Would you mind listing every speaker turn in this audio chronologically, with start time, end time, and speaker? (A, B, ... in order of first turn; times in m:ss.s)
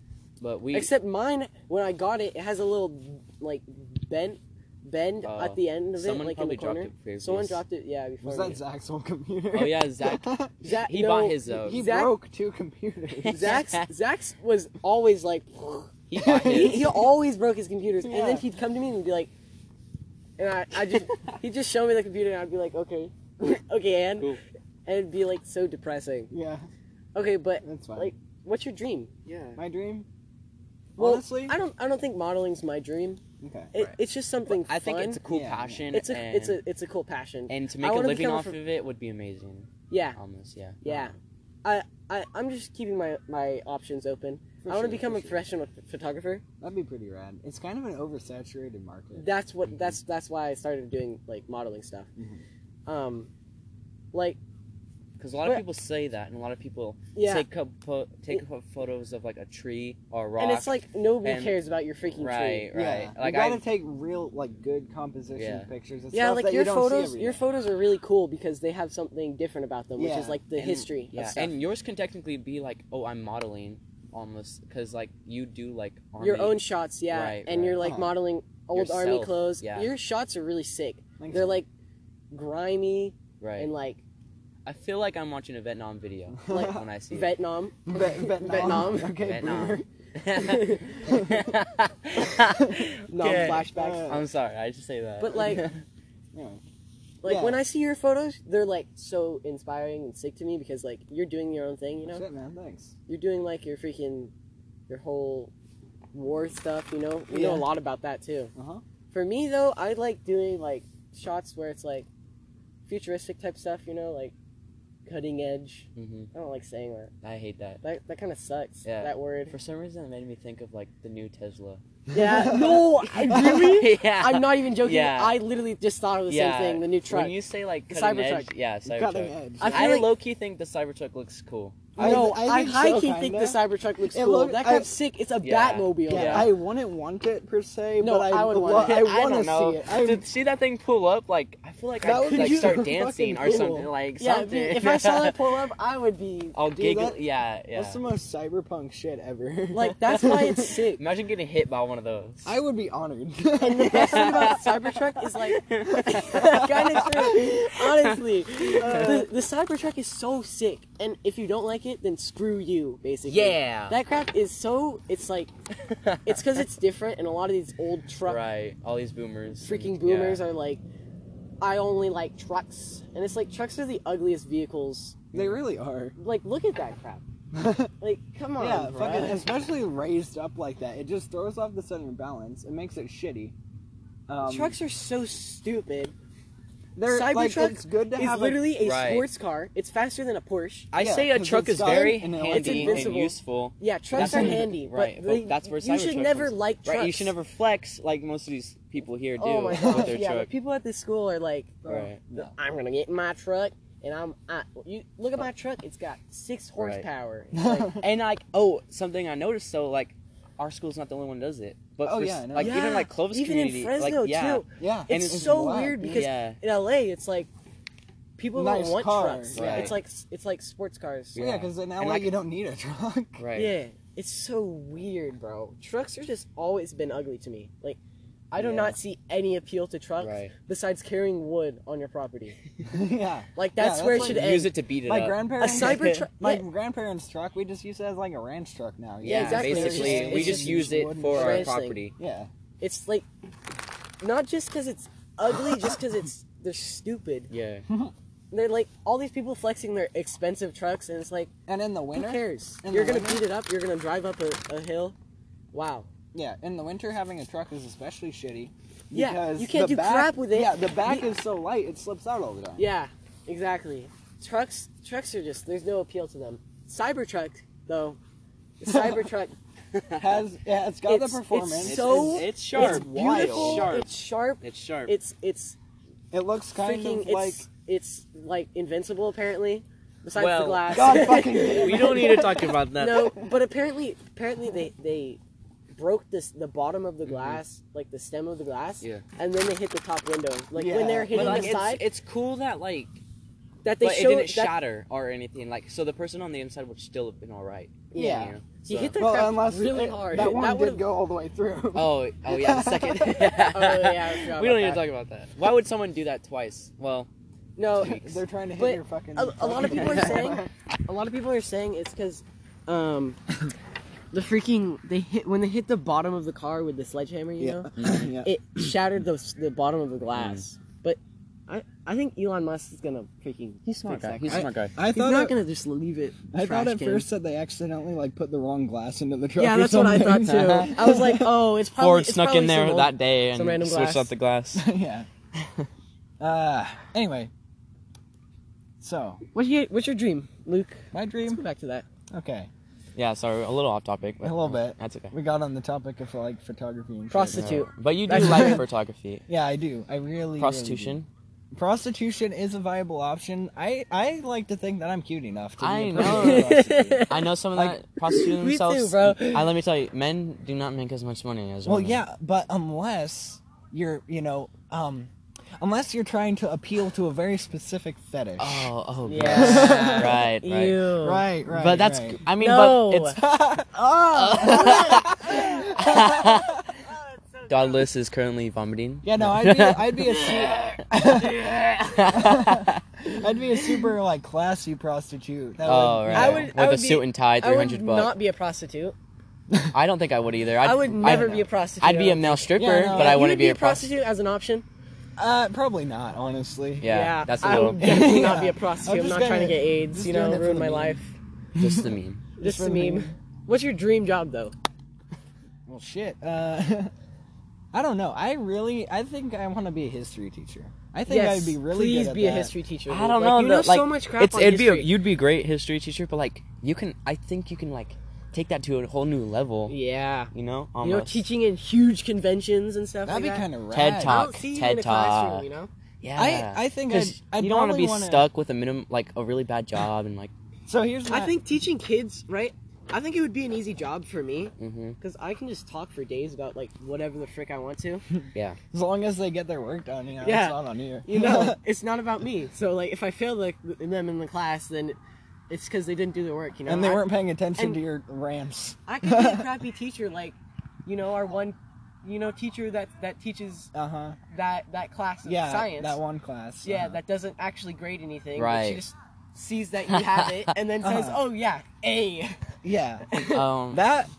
0:00.4-0:00.9 A
0:00.7-0:08.6 B
0:05.2-0:07.6 A
0:08.2-0:10.5 C
0:09.5-0:11.8 A
0:10.6-0:12.1 B
0:11.5-0:13.6 C
0:13.2-0:13.8 A
0:13.3-0:19.3 B
0:16.1-0:16.9 A
0:16.2-0:16.9 C
0:18.0-0:18.4 C
0:20.4-0:26.3 B
0:26.3-0:26.7 C
0:27.1-0:29.1 B
0:27.6-0:28.1 C
0:29.2-0:29.6 A
0:29.6-0:30.1 C
0:31.0-0:31.6 C
0:31.0-0:33.2 B
0:33.4-0:33.7 C
0:33.7-0:35.2 B
0:34.4-0:36.6 A
0:35.3-0:35.8 C
0:35.9-0:38.6 B
0:37.5-0:41.0 A
0:39.9-0:40.2 B
0:40.8-0:46.4 B
0:44.6-0:45.4 C
0:46.6-0:49.2 C
0:49.1-0:52.1 B
0:49.6-0:50.0 A
0:52.2-0:52.4 C
0:52.8-0:53.3 B
0:54.1-0:54.4 B
0:55.2-1:03.6 A
0:57.1-0:57.4 B
1:00.4-1:02.7 B
1:02.7-1:07.4 C
1:05.3-1:05.7 A
1:06.1-1:11.5 B
1:10.0-1:10.4 C
1:10.6-1:17.8 A
1:16.2-1:21.7 B
1:17.8-1:18.1 C
1:18.7-1:19.9 A
1:21.2-1:21.6 C
1:22.3-1:24.0 B
1:23.4-1:23.7 A
1:24.6-1:27.4 A
1:26.4-1:26.8 C
1:26.5-1:29.1 B
1:27.9-1:29.8 C
1:28.6-1:35.8 A
1:30.3-1:31.0 B
1:31.0-1:31.5 C
1:33.1-1:34.2 B
1:33.4-1:34.3 C
1:35.2-1:35.6 B
1:36.3-1:36.6 C
1:37.2-1:42.2 B
1:37.2-1:37.6 C
1:42.1-1:42.9 C
1:43.1-1:44.3 B
1:44.9-1:45.5 B
1:46.1-1:48.5 B
1:47.3-1:47.7 C
1:48.5-1:48.8 C
1:49.1-1:52.1 B
1:52.9-1:54.3 B
1:55.0-1:57.1 B
1:56.0-1:56.3 A
1:57.2-1:57.8 A
1:57.8-1:59.5 B
1:58.8-2:01.8 A
2:02.1-2:03.8 C
2:02.1-2:07.4 B
2:03.2-2:05.4 A
2:06.3-2:12.2 A
2:07.9-2:08.5 B
2:08.8-2:09.9 C
2:09.6-2:10.1 B
2:12.0-2:13.6 C
2:12.0-2:16.5 B
2:14.1-2:14.9 C
2:15.4-2:16.5 A
2:16.1-2:20.3 C
2:18.0-2:19.1 B
2:18.8-2:25.4 A
2:22.0-2:23.9 C
2:22.0-2:26.6 B
2:26.5-2:28.0 A
2:26.7-2:27.2 C
2:27.7-2:30.7 C
2:29.7-2:31.0 B
2:31.0-2:32.5 A
2:32.4-2:34.7 C
2:33.6-2:45.5 B
2:33.9-2:34.6 A
2:35.5-2:36.7 A
2:35.9-2:37.6 C
2:37.8-2:39.1 A
2:38.7-2:39.3 C
2:43.3-2:44.0 A
2:45.8-2:46.5 A
2:46.2-2:48.4 B
2:48.2-2:50.4 A
2:49.6-2:50.8 B
2:51.6-2:55.2 B
2:55.3-2:56.2 C
2:56.2-2:57.2 B
2:57.5-2:57.9 C
2:58.0-2:59.4 B
2:58.6-3:03.5 C
3:04.3-3:04.8 C
3:04.4-3:06.1 B
3:07.0-3:08.7 C
3:07.1-3:10.9 B
3:08.8-3:09.3 A
3:10.9-3:20.5 A
3:11.0-3:13.2 C
3:12.5-3:17.3 B
3:14.1-3:14.7 C
3:19.4-3:28.0 B
3:19.7-3:20.2 C
3:21.8-3:22.2 A
3:21.8-3:22.5 C
3:26.8-3:27.0 A
3:27.5-3:28.0 C
3:28.0-3:36.6 A
3:32.0-3:32.8 C
3:32.6-3:37.5 B
3:34.8-3:36.2 C
3:38.4-3:41.4 B
3:38.5-3:40.0 C
3:39.5-3:40.0 A
3:41.3-3:42.3 A
3:41.4-3:43.4 C
3:43.4-3:43.7 A
3:43.6-3:48.0 B
3:48.5-3:52.6 B
3:48.6-3:49.0 C
3:50.2-3:50.5 A
3:52.8-3:54.5 C
3:53.6-3:54.7 B
3:54.1-3:56.2 A
3:55.0-4:02.5 C
3:55.6-3:56.6 B
3:59.2-4:02.1 A
3:59.2-4:02.0 B
4:02.8-4:03.2 B
4:04.2-4:07.5 B
4:07.5-4:07.8 A
4:07.9-4:08.1 C
4:08.5-4:11.5 B
4:11.7-4:13.4 C
4:12.1-4:15.2 B
4:15.7-4:16.1 B
4:16.3-4:22.8 C
4:19.1-4:21.3 B
4:22.8-4:28.2 B
4:28.8-4:29.5 B
4:28.9-4:29.2 C
4:30.2-4:34.0 C
4:31.0-4:35.8 B
4:31.8-4:35.1 A
4:36.3-4:37.7 C
4:36.8-4:42.3 B
4:40.3-4:43.3 A
4:40.9-4:42.8 C
4:43.0-4:45.4 B
4:45.9-4:52.0 B
4:47.2-4:47.6 A
4:50.7-4:51.8 C
4:51.3-4:53.2 A
4:53.8-4:54.8 B
4:54.0-4:59.2 A
4:58.1-5:01.0 B
4:58.2-4:58.5 C
4:59.2-5:03.3 C
5:01.9-5:07.3 A
5:03.2-5:05.0 B
5:07.8-5:13.4 B
5:07.9-5:10.7 C
5:14.3-5:17.9 B
5:17.6-5:18.9 C
5:18.0-5:18.3 A
5:18.4-5:27.3 B
5:20.3-5:20.6 A
5:24.0-5:24.9 A
5:24.5-5:25.6 C
5:26.5-5:31.5 C
5:29.6-5:34.3 B
5:30.5-5:30.9 A
5:32.0-5:34.8 A
5:34.7-5:35.3 C
5:35.6-5:35.9 A
5:36.4-5:37.5 C
5:39.0-5:39.4 C
5:39.5-5:42.0 B
5:41.1-5:41.6 C
5:42.3-5:42.7 C
5:43.2-5:45.3 A
5:44.4-5:47.7 C
5:47.3-5:48.8 B
5:47.5-5:49.4 A
5:48.4-5:48.8 C
5:49.5-5:51.2 C
5:50.6-5:51.3 A
5:51.7-5:58.0 C
5:55.8-6:02.2 A
5:56.2-5:57.5 B
5:58.2-5:59.7 B
6:01.8-6:08.9 C
6:08.6-6:11.0 A
6:09.2-6:11.4 B
6:09.4-6:10.5 C
6:11.2-6:12.4 C
6:11.7-6:13.4 A
6:12.6-6:13.4 B
6:13.4-6:16.8 C
6:13.9-6:18.1 B
6:14.3-6:16.8 A
6:17.7-6:23.3 A
6:19.2-6:26.7 C
6:25.8-6:28.3 A
6:26.3-6:29.1 B
6:29.7-6:29.9 C
6:29.9-6:34.1 A
6:30.8-6:34.8 B
6:31.2-6:31.6 C
6:32.8-6:33.4 C
6:35.4-6:41.2 C
6:37.0-6:38.0 A
6:37.0-6:41.3 B
6:41.7-6:43.3 C
6:41.8-6:42.4 A
6:42.6-6:44.7 B
6:45.9-6:47.1 C
6:47.9-6:52.7 C
6:51.3-6:55.1 B
6:53.1-7:00.0 A
6:59.9-7:03.7 B
7:00.5-7:01.4 A
7:03.2-7:04.4 C
7:03.9-7:05.6 A
7:04.2-7:05.9 B
7:06.2-7:10.5 A
7:06.4-7:08.5 C
7:10.9-7:11.6 C
7:11.3-7:18.2 B
7:14.8-7:15.2 A
7:18.3-7:21.8 C
7:20.4-7:25.2 B
7:25.7-7:28.0 B
7:26.8-7:29.7 C
7:29.0-7:33.9 B
7:33.9-7:34.4 C
7:34.5-7:36.2 B
7:35.4-7:37.2 C
7:36.8-7:42.6 B
7:38.6-7:39.0 A
7:41.0-7:41.4 C
7:42.8-7:43.3 C
7:43.3-7:43.6 B
7:43.5-7:44.0 A
7:43.9-7:44.3 C